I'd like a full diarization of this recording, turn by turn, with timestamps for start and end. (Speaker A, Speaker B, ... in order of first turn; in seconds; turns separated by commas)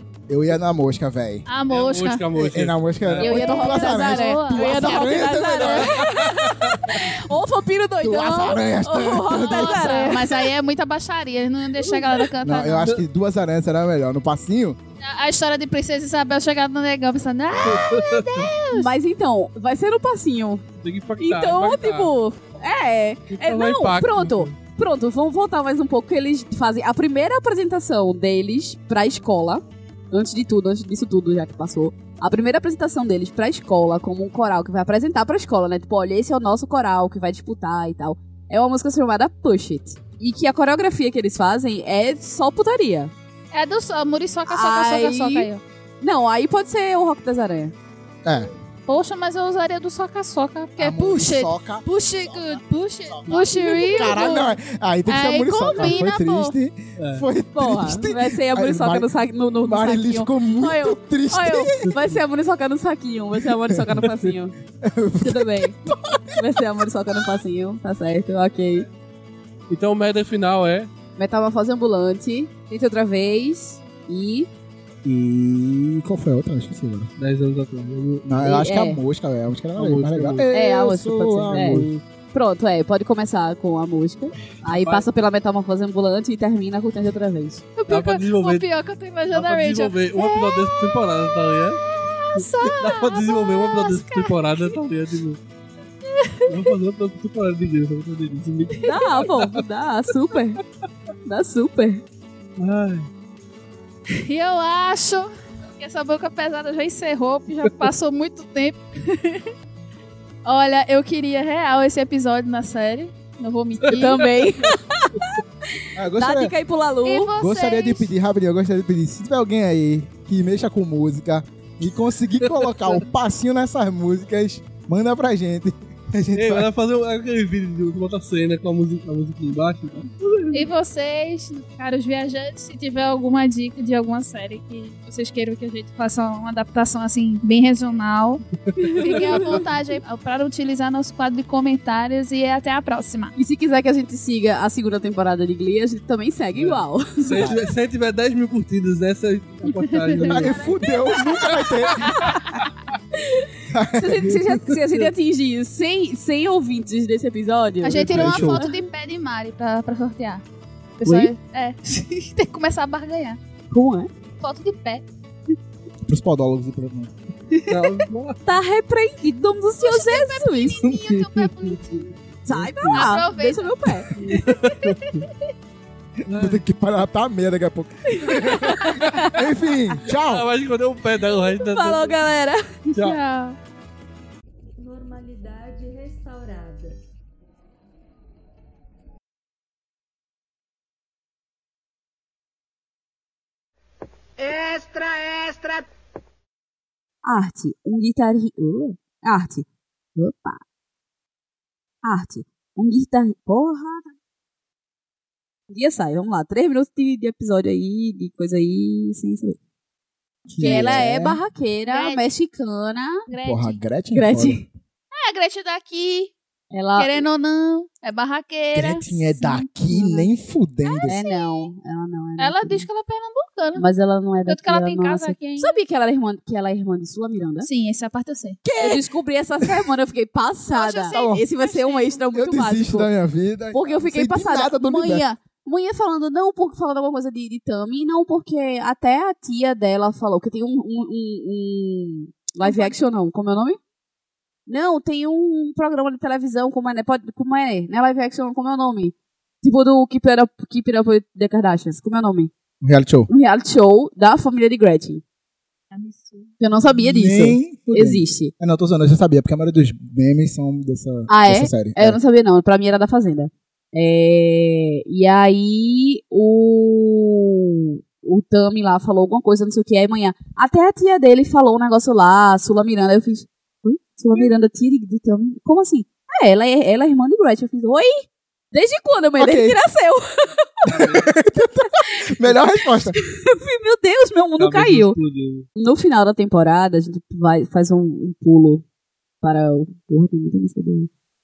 Speaker A: 0.3-1.5, Speaker B: 1.5-2.3, Speaker C: 1.7-3.5, Speaker A: 2.3-6.2, Speaker D: 3.2-10.5, Speaker B: 3.2-4.9, Speaker C: 6.6-7.0, Speaker A: 8.0-10.1, Speaker B: 9.4-12.9, Speaker D: 11.8-12.2, Speaker A: 12.4-14.8, Speaker B: 15.0-18.9, Speaker C: 17.6-18.5, Speaker D: 18.7-20.6, Speaker C: 20.8-22.1, Speaker D: 21.2-43.1, Speaker C: 23.3-24.6, Speaker B: 43.5-45.6, Speaker D: 44.5-45.5, Speaker D: 46.0-47.7, Speaker A: 48.2-48.5, Speaker B: 48.9-56.5, Speaker A: 50.8-62.2, Speaker D: 53.4-54.4, Speaker C: 55.8-56.0, Speaker C: 57.0-57.3, Speaker D: 57.5-64.5, Speaker A: 63.7-64.0, Speaker C: 64.0-64.3, Speaker A: 64.8-66.6, Speaker D: 65.2-65.8, Speaker D: 66.3-68.9, Speaker C: 69.7-70.9, Speaker D: 71.2-74.5, Speaker A: 75.0-77.1, Speaker C: 77.2-78.5, Speaker A: 78.2-81.9, Speaker D: 78.4-79.0, Speaker C: 79.8-80.5, Speaker D: 80.5-87.7, Speaker C: 81.5-81.9, Speaker C: 84.6-85.1, Speaker B: 87.8-94.3, Speaker C: 87.9-88.7, Speaker C: 89.3-91.8, Speaker C: 92.4-95.4, Speaker B: 96.2-96.5, Speaker C: 96.5-99.6, Speaker D: 98.8-100.6, Speaker D: 101.3-102.0, Speaker C: 102.6-103.1, Speaker B: 104.2-109.5, Speaker B: 110.5-114.3, Speaker D: 113.9-115.4, Speaker A: 116.0-116.5, Speaker D: 116.2-117.3, Speaker B: 117.0-118.1, Speaker A: 117.4-126.7, Speaker C: 122.4-122.9, Speaker C: 126.4-130.7, Speaker B: 130.5-138.4, Speaker C: 138.7-139.5, Speaker B: 139.0-143.3, Speaker D: 139.1-139.6, Speaker A: 139.3-139.7, Speaker D: 143.4-147.4, Speaker C: 146.6-150.7, Speaker A: 147.4-147.7, Speaker B: 149.7-150.9, Speaker A: 150.2-152.2, Speaker D: 151.1-152.2, Speaker B: 152.1-152.6, Speaker D: 153.2-158.8, Speaker A: 153.7-154.8, Speaker B: 157.8-160.4, Speaker C: 158.0-158.2, Speaker A: 158.1-158.6, Speaker B: 161.0-163.4, Speaker D: 161.0-161.3, Speaker D: 163.7-164.1, Speaker B: 164.4-165.0, Speaker A: 166.0-167.1, Speaker B: 167.5-168.0, Speaker C: 167.7-168.4, Speaker D: 168.4-171.1, Speaker B: 169.8-172.1, Speaker D: 172.4-174.1, Speaker C: 172.5-173.2, Speaker B: 172.9-175.3, Speaker C: 174.2-175.2, Speaker A: 176.2-180.5, Speaker C: 176.3-176.6, Speaker D: 178.1-179.4, Speaker C: 180.1-182.2, Speaker D: 181.6-182.8, Speaker B: 183.0-183.6, Speaker E: 184.8-187.0, Speaker D: 197.2-200.6, Speaker D: 202.0-204.2, Speaker D: 205.7-209.6, Speaker A: 210.5-211.4, Speaker D: 210.6-213.3, Speaker B: 210.6-211.0, Speaker B: 211.9-212.2, Speaker B: 213.3-213.8, Speaker A: 213.4-214.7, Speaker D: 214.1-214.7, Speaker B: 215.1-216.3, Speaker D: 216.7-217.3, Speaker B: 217.0-219.7, Speaker A: 218.7-221.2, Speaker D: 219.9-220.3, Speaker B: 220.8-221.7, Speaker D: 221.1-222.9, Speaker B: 222.4-223.9, Speaker D: 223.8-227.7, Speaker B: 224.5-225.8, Speaker B: 227.6-228.6, Speaker A: 228.6-229.1, Speaker D: 228.8-233.1, Speaker B: 230.7-232.3, Speaker A: 231.1-231.4, Speaker A: 232.3-235.2, Speaker D: 233.7-243.8, Speaker B: 242.6-243.0, Speaker D: 244.7-252.5, Speaker A: 252.8-253.3, Speaker D: 253.3-255.2, Speaker B: 255.9-256.5, Speaker D: 256.6-258.5, Speaker A: 257.0-262.2, Speaker D: 261.3-280.9, Speaker A: 279.4-279.8, Speaker C: 280.9-281.3, Speaker A: 280.9-283.2, Speaker D: 283.1-285.2, Speaker C: 284.6-285.7, Speaker D: 285.8-288.8, Speaker D: 289.4-291.1